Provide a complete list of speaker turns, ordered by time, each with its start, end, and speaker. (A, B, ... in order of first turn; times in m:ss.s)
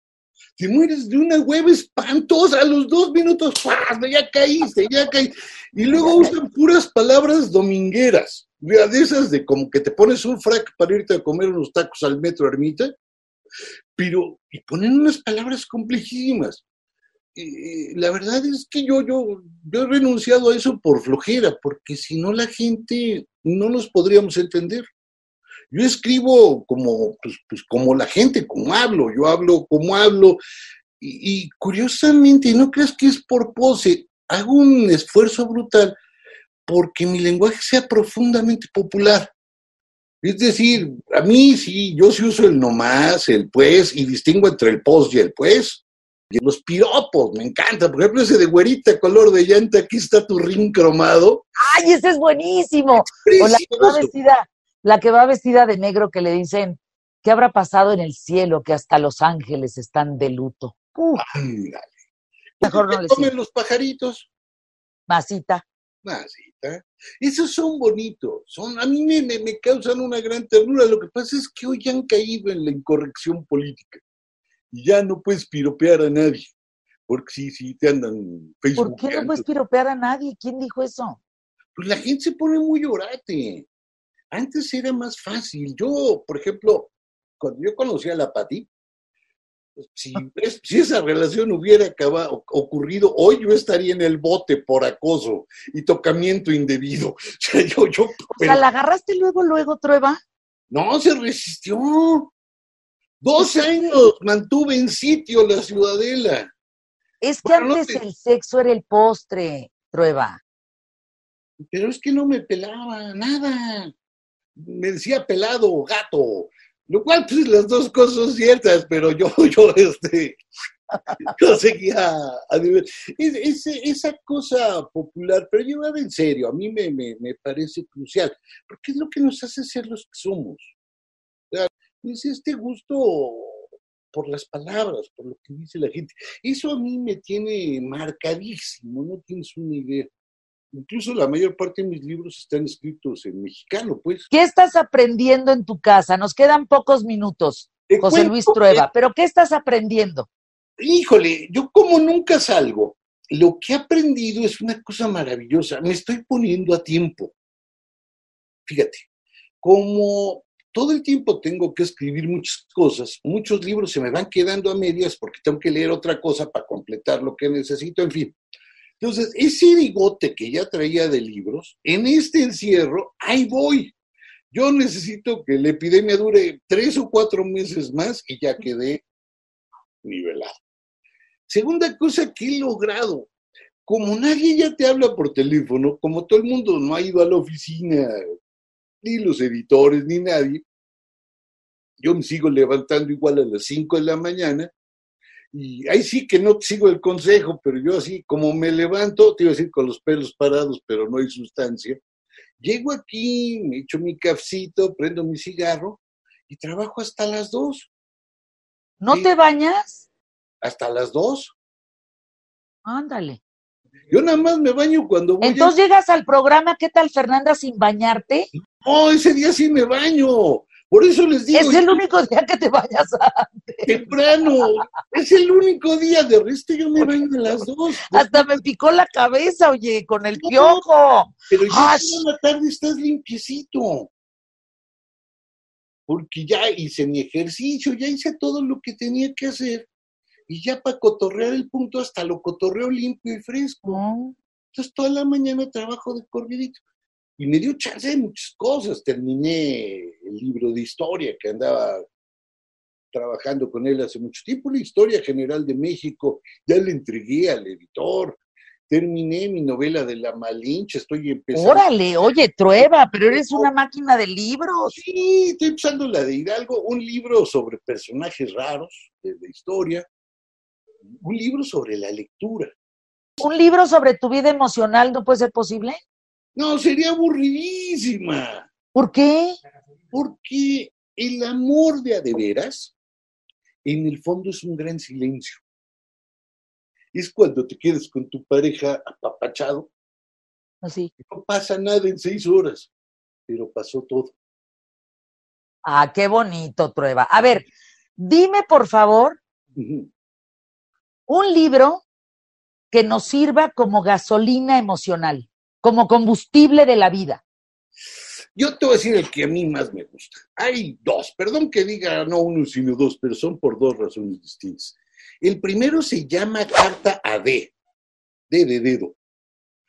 0:00.6-0:12.9 A
0:06.0-0:06.3 B
0:14.0-0:16.6 A
0:17.4-0:24.9 A
0:25.7-0:30.4 A
0:31.0-0:36.0 A
0:36.7-0:39.3 A
0:40.2-0:51.5 A
0:51.6-1:01.2 B
0:53.0-0:54.1 A
1:01.2-1:01.9 A
1:02.6-1:04.3 A
1:02.6-1:03.3 B
1:05.1-1:05.6 B
1:06.0-1:14.0 A
1:14.7-1:16.5 A
1:17.1-1:19.4 A
1:18.8-1:21.2 B
1:21.8-1:23.7 A
1:24.3-1:28.7 A
1:29.8-1:38.6 A
1:38.3-1:40.2 B
1:40.7-1:42.3 A
1:43.2-1:46.5 A
1:43.4-1:44.0 B
1:47.2-1:50.4 B
1:47.4-1:48.0 A
1:51.7-1:53.9 A
1:54.6-2:00.4 A
2:01.2-2:10.8 A
2:11.5-2:20.1 A
2:20.7-2:24.3 A
2:24.3-2:30.3 B
2:27.9-2:28.8 A
2:30.8-2:37.4 A
2:38.7-2:39.1 A
2:39.6-2:48.4 A
2:49.0-2:54.0 A
2:54.5-2:59.0 A
3:00.0-3:00.6 A
3:01.5-3:03.3 A
3:03.9-3:08.3 A
3:09.0-3:10.6 A
3:12.0-3:14.7 A
3:15.5-3:22.0 A
3:22.6-3:27.9 A
3:29.0-3:30.1 B
3:30.6-3:31.5 A
3:32.8-3:33.4 B
3:34.1-3:35.8 A
3:35.4-3:38.5 B
3:38.8-3:42.0 A
3:41.5-3:44.1 B
3:43.9-3:48.6 A
3:48.1-3:52.2 B
3:50.4-3:50.8 A
3:51.5-3:54.1 A
3:56.1-3:59.9 A
4:00.5-4:04.0 A
4:03.9-4:04.3 B
4:04.7-4:06.8 A
4:07.4-4:12.0 A
4:13.1-4:21.9 A
4:21.5-4:25.0 B
4:22.8-4:23.7 A
4:24.9-4:30.1 A
4:31.2-4:32.7 A
4:33.4-4:36.0 B
4:36.6-4:38.7 A
4:38.9-4:39.6 B
4:40.1-4:43.0 A
4:43.8-4:45.6 A
4:47.1-4:49.9 A
4:50.8-4:51.1 B
4:51.2-4:52.9 A
4:53.5-4:54.4 A
4:55.8-4:59.4 B
4:59.8-5:00.1 A
5:01.3-5:02.0 B
5:02.9-5:07.4 B
5:08.6-5:17.8 A
5:18.5-5:19.2 A